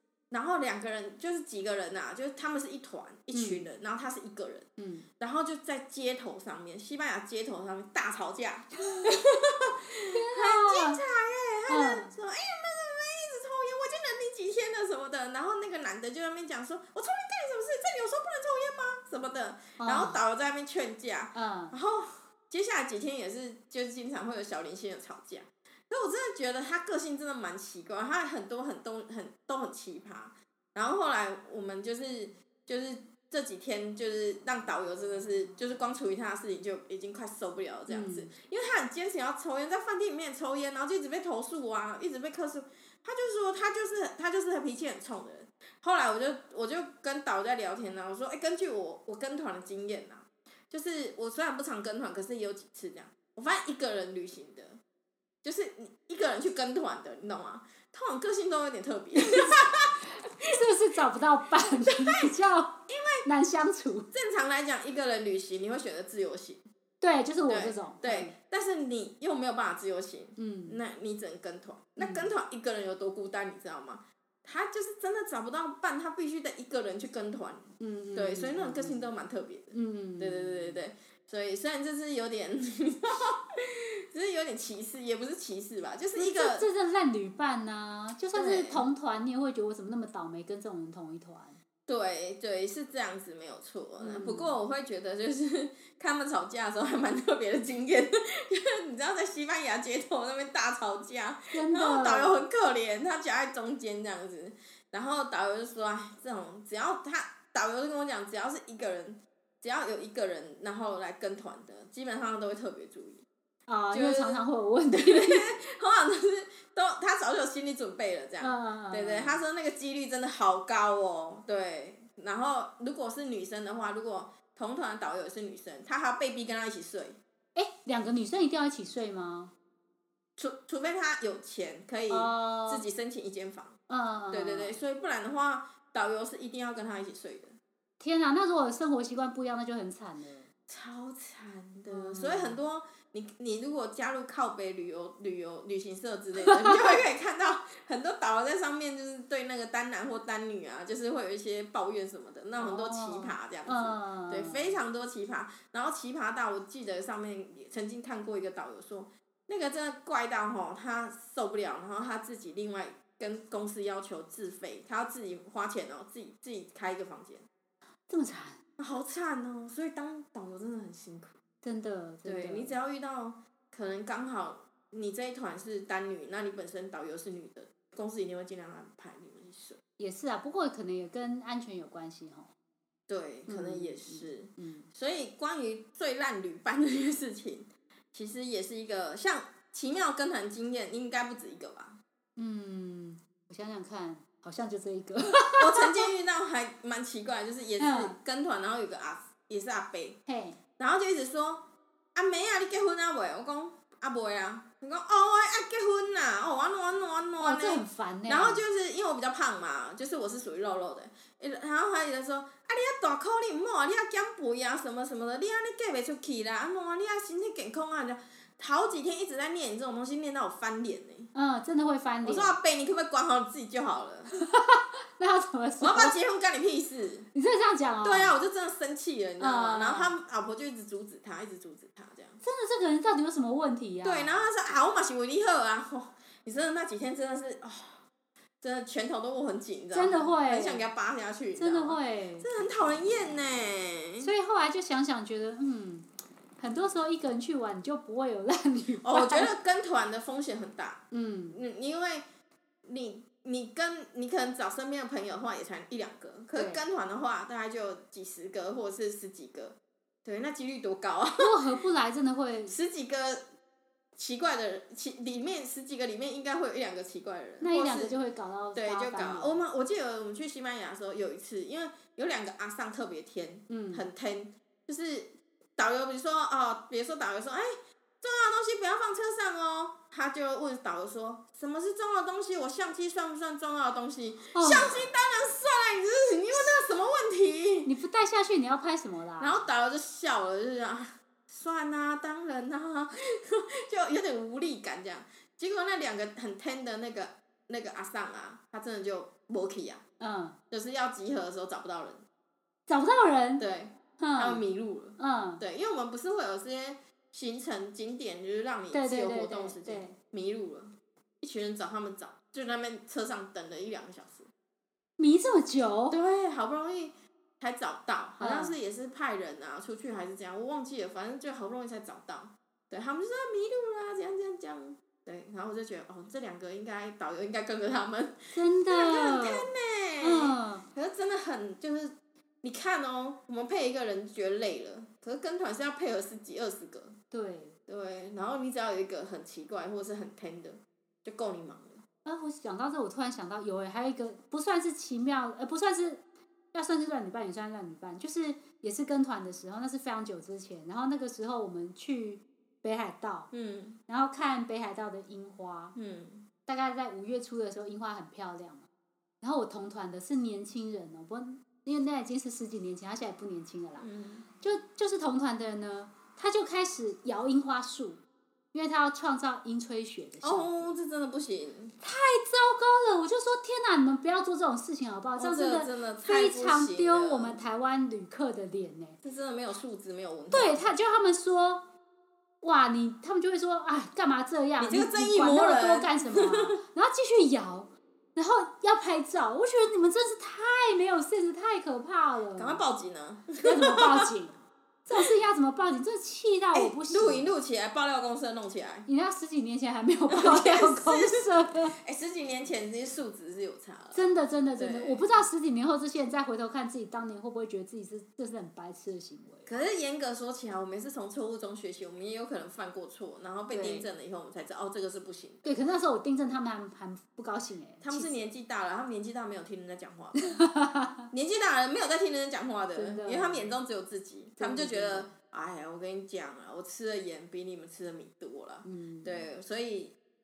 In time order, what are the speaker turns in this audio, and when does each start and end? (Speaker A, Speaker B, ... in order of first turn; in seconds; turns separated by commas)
Speaker A: 0.3-4.7, Speaker B: 3.3-3.6, Speaker B: 4.8-5.1, Speaker A: 5.2-54.8, Speaker B: 10.1-11.0, Speaker B: 11.7-12.1, Speaker B: 19.8-20.2, Speaker B: 21.4-21.7, Speaker B: 37.9-38.3, Speaker A: 55.4-60.8, Speaker B: 59.3-59.5, Speaker B: 60.5-64.1, Speaker A: 61.7-62.3, Speaker A: 62.9-63.3, Speaker A: 64.1-66.6, Speaker B: 67.0-68.3, Speaker A: 67.5-86.7, Speaker B: 70.4-70.8, Speaker B: 72.0-72.3, Speaker B: 77.8-79.0, Speaker B: 79.7-80.8, Speaker B: 86.2-91.6, Speaker A: 88.3-88.9, Speaker A: 91.9-113.2, Speaker B: 94.0-94.5, Speaker B: 101.5-102.4, Speaker B: 113.7-115.5, Speaker A: 113.9-127.2, Speaker B: 118.4-119.4, Speaker B: 127.5-129.5, Speaker A: 130.4-133.8, Speaker B: 132.1-132.9, Speaker B: 133.9-134.8, Speaker A: 134.3-137.6, Speaker B: 138.0-140.5, Speaker A: 140.7-167.4, Speaker B: 141.9-142.6, Speaker B: 152.6-154.7, Speaker B: 168.1-168.6, Speaker A: 168.8-171.4, Speaker B: 171.6-172.7, Speaker A: 172.2-179.8, Speaker B: 180.0-182.5, Speaker A: 183.1-192.0, Speaker B: 183.5-184.9, Speaker B: 192.4-196.1, Speaker A: 195.6-200.2, Speaker B: 197.8-198.2, Speaker B: 200.3-200.6, Speaker A: 200.8-221.3, Speaker B: 207.4-208.6, Speaker B: 221.3-222.6, Speaker A: 222.2-224.3, Speaker B: 224.3-226.2, Speaker A: 225.8-227.3, Speaker B: 227.3-228.3, Speaker A: 228.0-232.4, Speaker B: 229.4-230.1, Speaker B: 232.4-234.4, Speaker A: 234.0-238.0, Speaker A: 238.6-244.3, Speaker B: 239.9-240.8, Speaker B: 241.6-242.5, Speaker B: 244.2-246.1, Speaker B: 246.6-249.5, Speaker A: 249.0-252.2, Speaker B: 251.1-251.6, Speaker A: 252.9-261.6, Speaker B: 256.5-256.8, Speaker B: 261.4-262.8, Speaker A: 262.7-263.4, Speaker A: 264.2-268.2, Speaker B: 267.6-269.6, Speaker A: 268.8-277.7, Speaker B: 273.7-274.1, Speaker A: 278.2-287.9, Speaker B: 284.6-285.1, Speaker B: 287.9-289.7, Speaker A: 289.4-300.0, Speaker B: 300.2-300.6, Speaker A: 300.7-302.2, Speaker B: 302.9-303.6, Speaker A: 303.6-314.5, Speaker B: 304.2-304.6, Speaker B: 305.2-305.6, Speaker B: 308.9-310.2, Speaker B: 315.2-316.2, Speaker A: 316.1-337.2, Speaker B: 318.4-318.8, Speaker B: 328.5-329.7, Speaker B: 330.2-330.9, Speaker B: 337.3-337.8, Speaker A: 337.9-342.0, Speaker B: 342.2-353.5, Speaker A: 353.5-354.0, Speaker B: 354.1-355.9, Speaker A: 356.0-356.5, Speaker B: 356.7-358.9, Speaker B: 359.4-364.1, Speaker A: 364.0-364.5, Speaker B: 364.6-368.2, Speaker B: 368.7-370.9, Speaker A: 370.4-372.0, Speaker B: 372.0-379.2, Speaker A: 375.4-377.6, Speaker A: 379.2-380.9, Speaker B: 380.5-381.9, Speaker B: 382.6-392.8, Speaker A: 384.8-386.8, Speaker A: 392.6-394.3, Speaker B: 393.6-397.5, Speaker A: 396.7-399.1, Speaker B: 399.1-401.9, Speaker A: 400.3-401.5, Speaker A: 402.0-405.4, Speaker B: 404.1-409.7, Speaker A: 409.7-415.7, Speaker B: 413.7-414.1, Speaker B: 415.6-418.5, Speaker A: 418.0-420.6, Speaker B: 420.4-421.3, Speaker A: 421.3-430.1, Speaker B: 422.9-423.7, Speaker B: 424.6-425.3, Speaker B: 428.9-429.4